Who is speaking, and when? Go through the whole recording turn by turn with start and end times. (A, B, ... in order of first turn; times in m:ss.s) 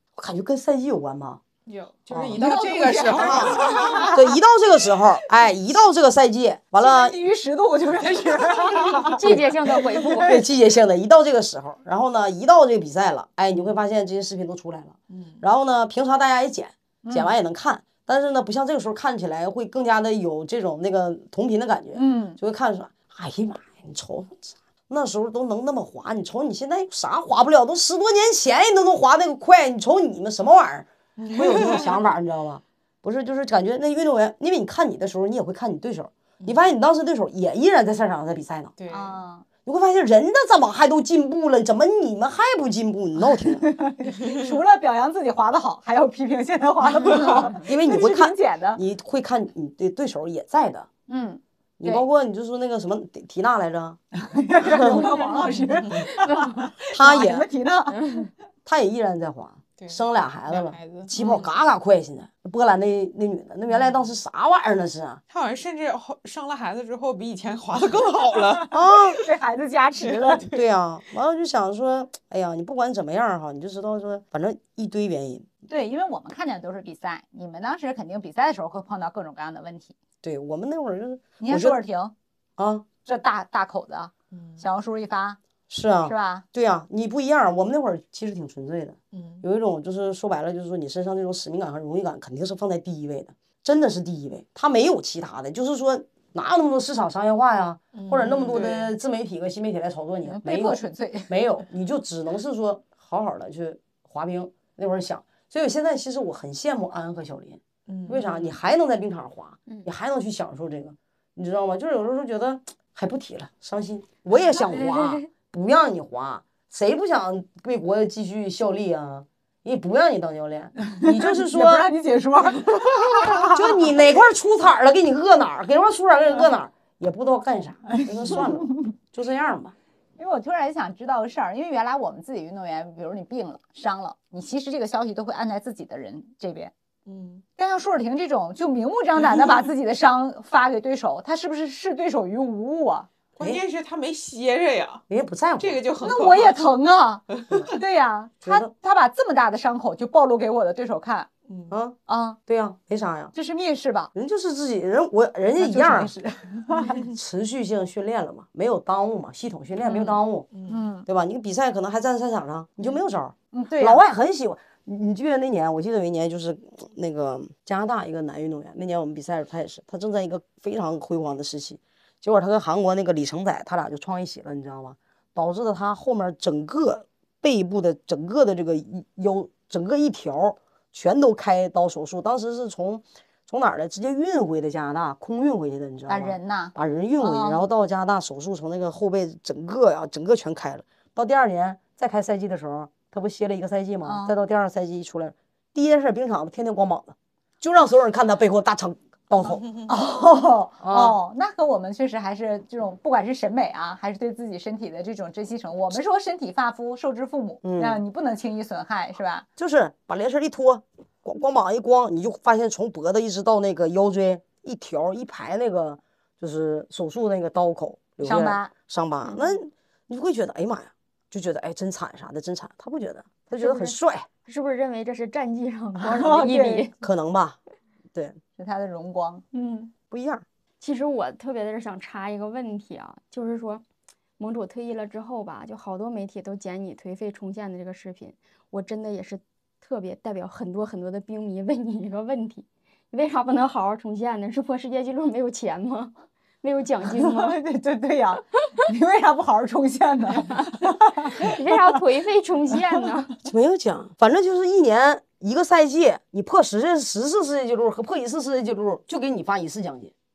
0:00.2-0:01.4 A
0:01.6-0:04.2 B
0:02.1-0:07.2 A
0:02.3-0:04.4 C
0:06.8-0:10.4 C
0:09.0-0:10.4 D
0:09.2-0:38.7 A
0:15.1-0:15.4 B
0:17.0-0:17.3 C
0:21.9-0:22.4 C
0:31.2-0:32.0 B
0:38.8-0:39.2 B
0:38.9-0:39.4 C
0:39.6-0:43.7 A
0:43.4-0:48.8 C
0:47.6-0:50.9 A
0:51.1-0:52.0 C
0:51.8-0:54.0 A
0:54.2-0:58.3 C
0:54.6-0:55.0 A
0:55.4-0:55.9 B
0:56.8-0:57.5 A
0:58.6-1:05.2 A
0:59.8-1:01.4 B
1:05.3-1:08.8 B
1:08.7-1:09.2 A
1:09.1-1:10.5 C
1:10.0-1:10.4 B
1:10.4-1:15.4 A
1:15.7-1:20.0 C
1:20.2-1:21.8 A
1:21.4-1:22.1 C
1:22.6-1:22.8 A
1:23.0-1:25.4 C
1:24.3-1:24.6 B
1:25.7-2:01.8 A
1:26.0-1:26.4 C
1:29.1-1:29.4 B
1:37.9-1:38.9 B
1:40.2-1:41.3 C
1:47.9-1:48.6 B
2:01.0-2:03.9 C
2:03.4-2:09.8 A
2:08.0-2:08.9 C
2:10.2-2:16.7 C
2:17.1-2:17.4 B
2:17.6-2:23.1 C
2:23.4-2:25.0 B
2:23.4-2:23.6 A
2:25.1-2:25.8 A
2:25.6-2:26.7 B
2:26.0-2:31.3 C
2:27.3-2:27.7 B
2:28.4-2:28.7 A
2:31.5-2:31.7 B
2:31.7-2:33.3 A
2:32.1-2:32.4 C
2:33.3-2:34.1 C
2:34.1-2:36.1 A
2:35.6-2:37.0 C
2:37.0-2:40.5 A
2:39.9-2:41.1 C
2:40.5-2:40.8 B
2:41.0-3:19.8 A
2:43.5-2:44.0 C
3:06.1-3:07.7 C
3:14.0-3:14.3 C
3:19.9-3:29.4 C
3:20.8-3:21.2 A
3:27.6-3:28.0 A
3:29.6-3:44.3 A
3:38.2-3:38.7 C
3:43.6-3:46.9 D
3:46.0-3:46.9 C
3:47.0-3:47.6 A
3:48.1-3:48.4 A
3:48.6-3:49.5 C
3:49.5-3:49.9 D
3:50.1-3:50.4 A
3:50.8-3:53.8 D
3:54.4-4:07.6 D
4:07.1-4:12.0 C
4:11.4-4:13.3 D
4:13.4-4:20.1 A